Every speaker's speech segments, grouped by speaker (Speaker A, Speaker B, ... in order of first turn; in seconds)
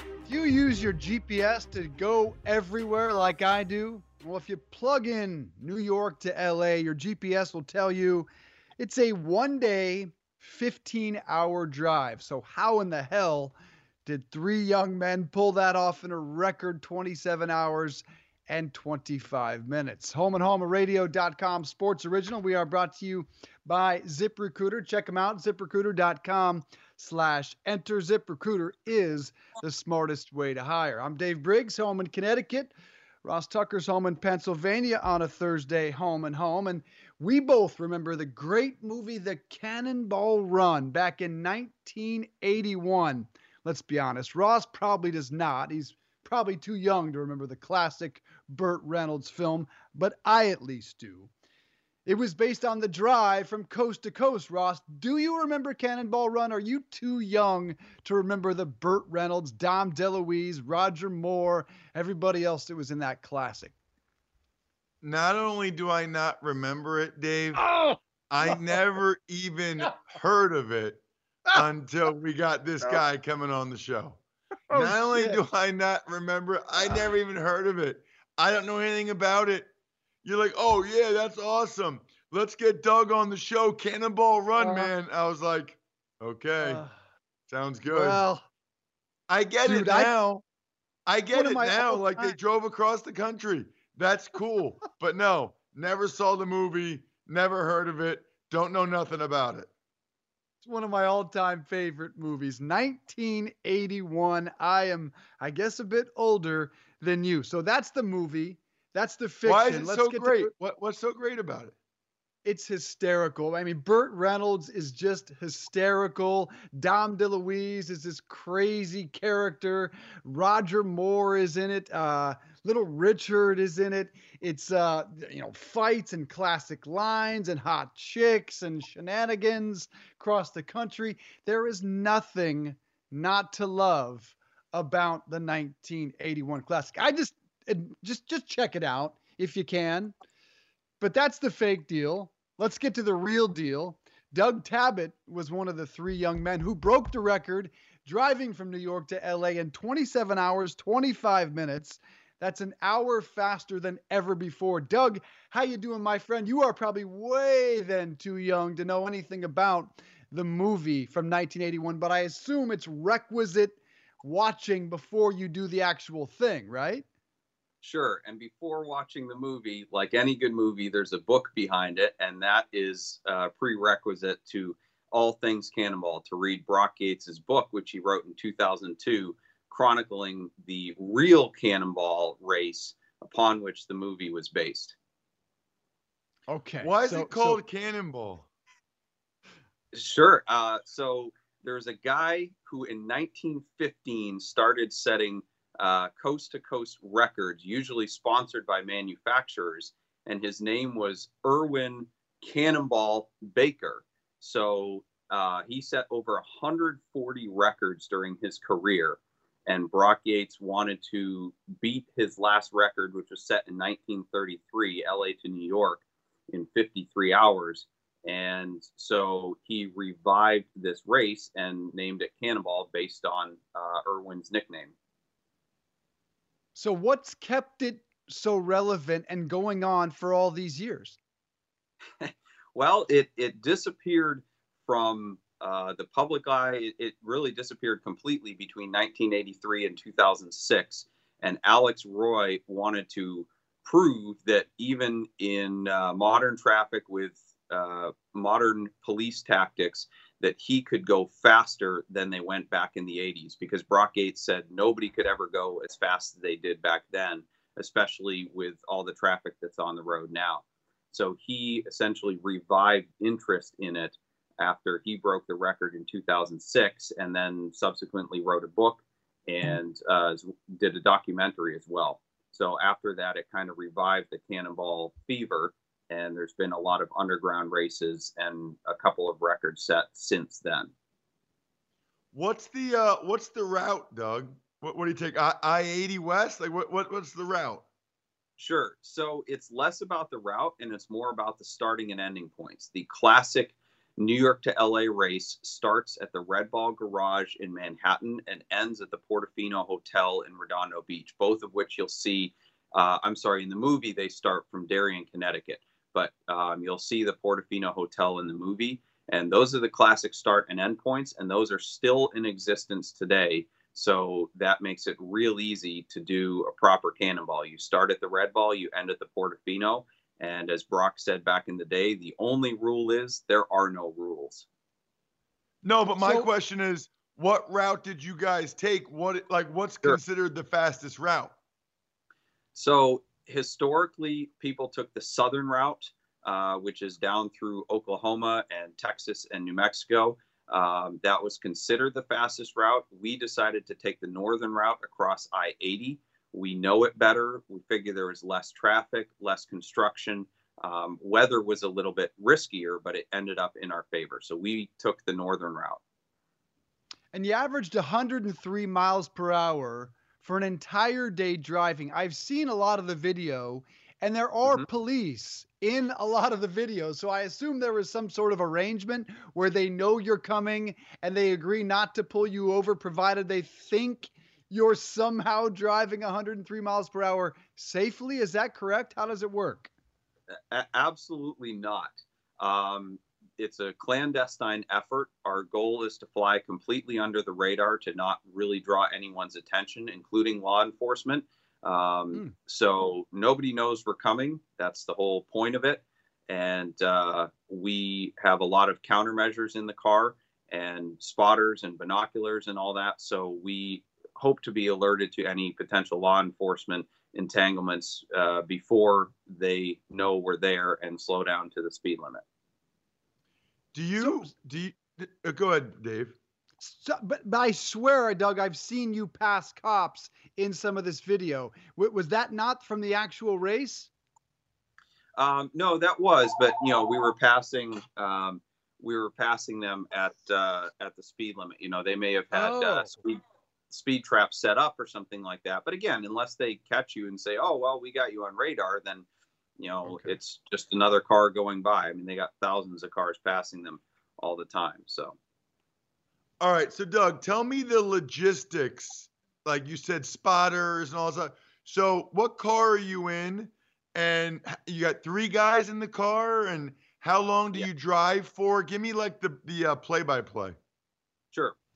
Speaker A: 0.2-8.3, 8.8-13.5, 14.1-51.3, 52.0-63.7, 67.6-68.0, 74.7-75.4, 84.6-84.9, 86.6-86.9, 87.9-88.4, 89.6-90.1, 91.3-92.3, 100.6-110.5, 112.4-140.1, 141.0-167.0, 186.5-187.6, 226.7-231.2, 326.2-326.5, 357.3-379.9, 414.2-414.5, 416.8-424.1, 432.5-433.1, 440.0-440.3
Speaker B: 65.0-67.7, 68.3-71.0, 71.5-74.2, 74.7-79.7, 80.2-86.8, 87.5-88.2, 89.3-90.4, 91.1-99.7, 109.4-111.7, 186.8-188.5, 282.3-287.8, 325.8-331.5, 413.9-416.4, 446.6-460.8
Speaker C: 167.8-184.9, 189.9-224.9, 232.2-280.9, 288.6-324.7, 332.7-356.0, 380.7-412.4, 425.4-439.3, 439.8-445.4